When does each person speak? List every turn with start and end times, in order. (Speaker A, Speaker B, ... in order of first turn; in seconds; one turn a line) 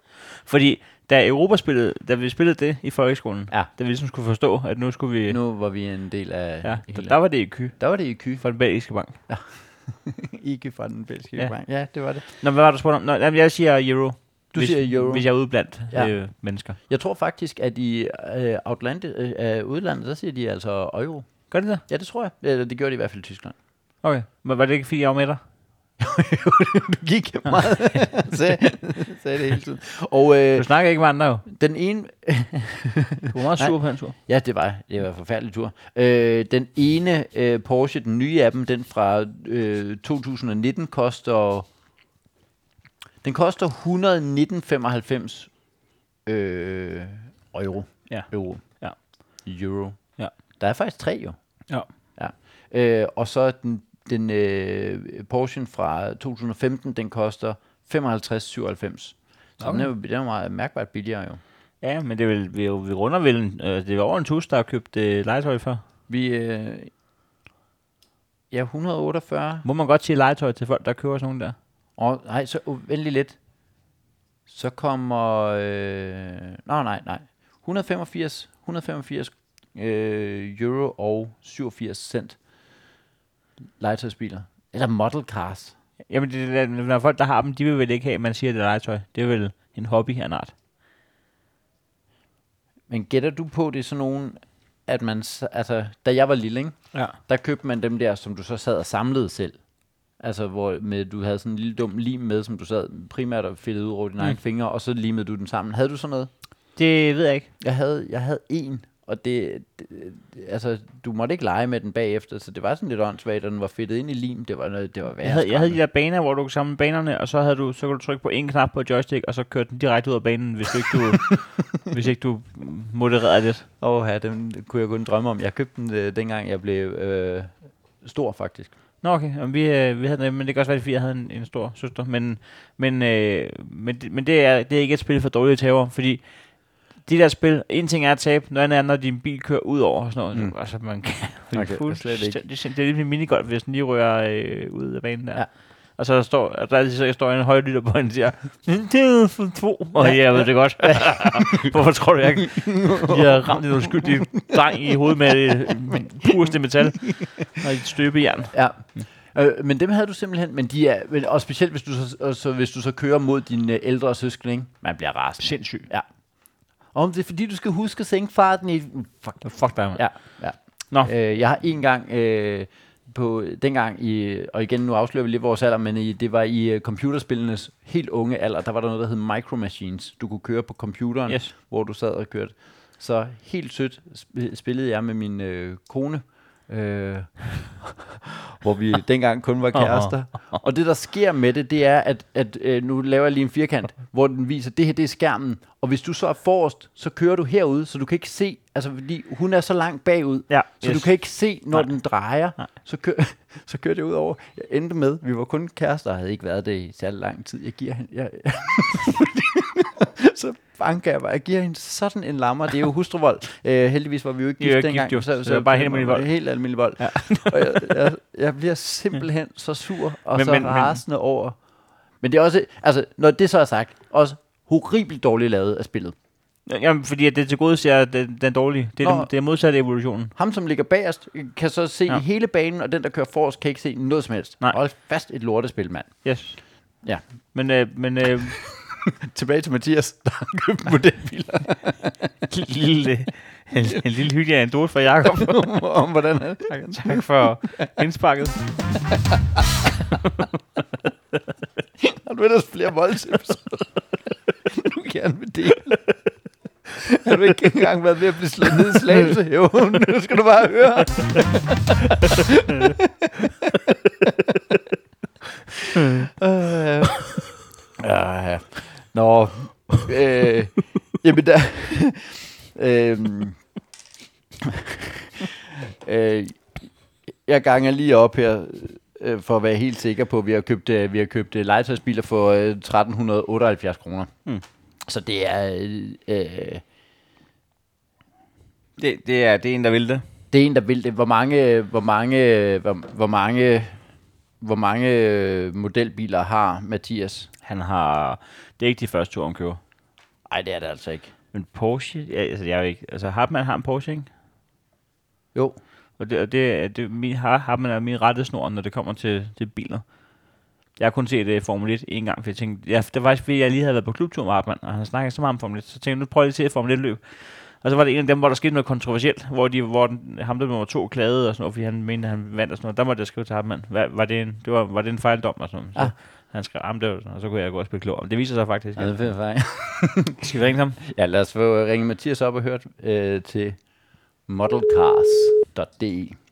Speaker A: 0.3-5.4
Speaker B: 5.3-8.4
Speaker A: 6.6-9.2
Speaker B: 9.3-12.2
Speaker A: 12.2-16.8
Speaker B: 14.5-23.5
Speaker A: 21.5-21.8
Speaker A: 24.0-25.4
Speaker B: 26.0-30.7
Speaker A: 30.6-31.4
Speaker B: 31.4-41.7
Speaker A: 33.3-34.1
Speaker B: 43.2-45.5
Speaker B: 46.2-51.4
Speaker A: 48.1-49.0
Speaker B: 52.1-61.4
Speaker A: 59.6-59.9
Speaker A: 61.8-65.8
Speaker B: 66.1-66.9
Speaker B: 68.5-69.6
Speaker A: 69.6-71.5
Speaker B: 72.0-73.3
Speaker B: 74.5-82.4
Speaker B: 83.8-85.7
Speaker A: 86.1-90.5
Speaker B: 92.9-99.6
Speaker B: 100.2-106.3
Speaker A: 106.8-107.5
Speaker B: 107.6-115.8
Speaker A: 115.2-123.7
Speaker B: 123.8-128.7
Speaker A: 129.0-159.1
Speaker B: 140.3-142.4
Speaker B: 150.0-151.7
Speaker B: 152.4-154.6
Speaker B: 155.4-156.5
Speaker B: 158.5-166.1
Speaker A: 165.4-165.9
Speaker B: 166.9-221.6
Speaker A: 169.4-170.4
Speaker A: 181.3-181.5
Speaker A: 189.7-190.6
Speaker A: 200.5-201.9
Speaker A: 214.6-216.3
Speaker A: 217.0-217.9
Speaker A: 220.3-221.0
Speaker B: 222.2-226.1
Speaker A: 226.7-230.3
Speaker B: 229.0-229.3
Speaker B: 230.3-236.4
Speaker A: 236.2-236.6
Speaker A: 237.5-238.6
Speaker B: 238.6-242.3
Speaker A: 242.5-245.6
Speaker B: 245.2-247.9
Speaker A: 246.7-248.9
Speaker B: 249.3-249.7
Speaker B: 252.0-254.0
Speaker B: 254.7-256.1
Speaker B: 256.9-264.5
Speaker B: 266.0-267.5
Speaker B: 268.0-273.6
Speaker B: 274.6-276.9
Speaker B: 277.4-284.3
Speaker B: 285.1-286.8
Speaker A: 289.0-290.2
Speaker B: 290.5-294.0
Speaker B: 294.6-297.5
Speaker A: 297.6-299.8
Speaker B: 300.5-301.3
Speaker A: 301.5-304.3
Speaker A: 306.2-310.0
Speaker A: 311.0-329.3
Speaker B: 328.9-330.5
Speaker A: 330.4-331.0
Speaker B: 331.0-333.8
Speaker B: 334.5-336.4